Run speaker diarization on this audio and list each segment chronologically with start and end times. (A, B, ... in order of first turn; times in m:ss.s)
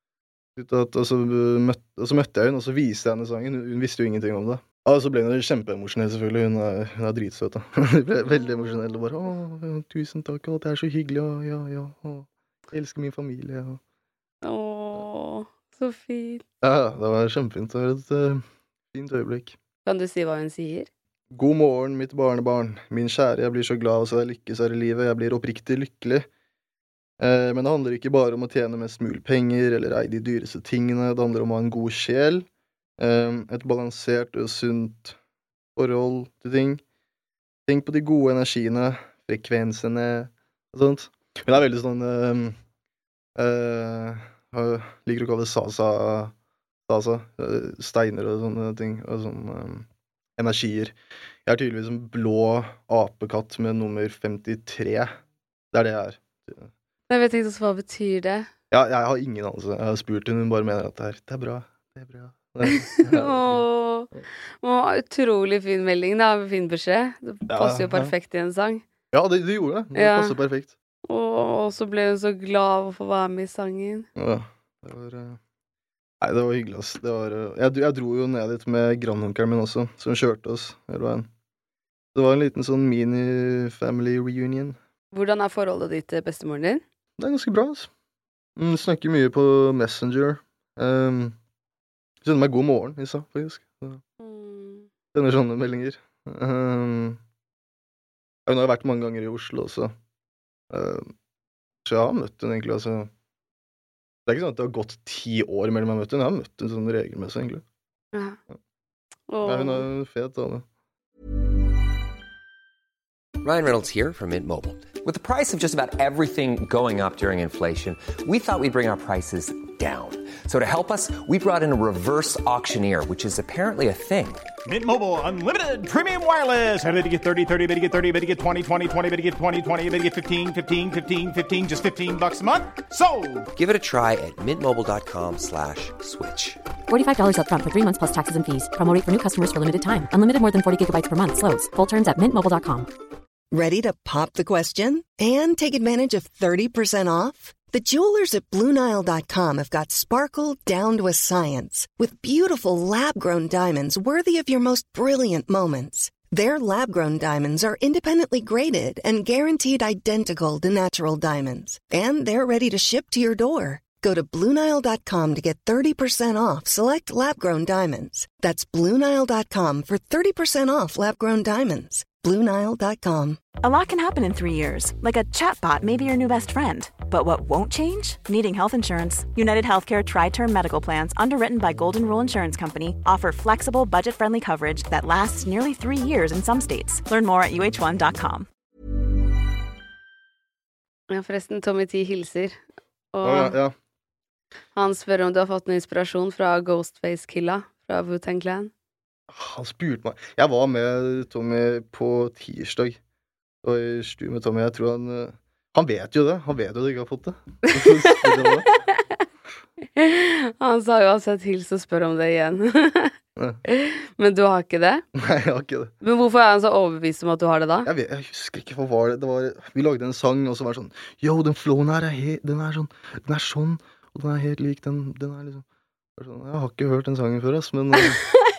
0:00.6-0:13.8 A
0:14.4-0:16.4 B
0:16.6-0:19.6 A
0:19.8-0:20.9 B
0:21.3-0:26.3 A
0:27.2-0:32.5 A
0:33.0-0:35.2 A
0:35.8-0:36.8 A
0:37.7-0:42.6 A
0:43.4-0:46.3 A
0:46.9-0:55.2 A
0:55.7-0:56.7 A
0:57.1-0:58.5 B
0:58.7-1:04.2 A
1:02.6-1:04.1 B
1:04.6-1:08.8 B
1:07.5-1:08.1 A
1:09.1-1:10.7 A
1:10.0-1:10.4 B
1:11.1-1:14.1 B
1:14.1-1:15.4 A
1:16.2-1:21.3 A
1:22.1-1:24.8 A
1:25.1-1:26.8 B
1:27.2-1:27.9 A
1:28.6-1:31.4 A
1:32.2-1:34.0 A
1:34.2-1:34.9 B
1:35.1-1:37.2 A
1:38.5-1:39.9 A
1:40.7-1:41.1 A
1:41.8-1:43.1 A
1:44.3-1:47.6 A
1:48.1-1:48.4 B
1:49.3-1:49.9 B
1:49.4-1:50.6 A
1:53.4-2:04.5 C
2:04.7-2:13.5 D
2:13.6-2:16.6 C
2:16.9-2:22.9 E
2:23.5-2:53.4 F
2:53.6-3:08.5 G
3:11.1-3:12.6 B
3:13.1-3:13.6 B
3:13.2-3:13.8 A
3:14.8-3:18.7 B
3:19.3-3:23.0 A
3:23.6-3:28.7 A
3:27.6-3:28.5 B
3:30.0-3:33.1 B
3:33.4-3:33.6 A
3:33.6-3:35.0 B
3:35.1-3:35.9 A
3:36.0-3:37.9 B
3:37.9-3:45.6 A
3:46.2-3:48.2 A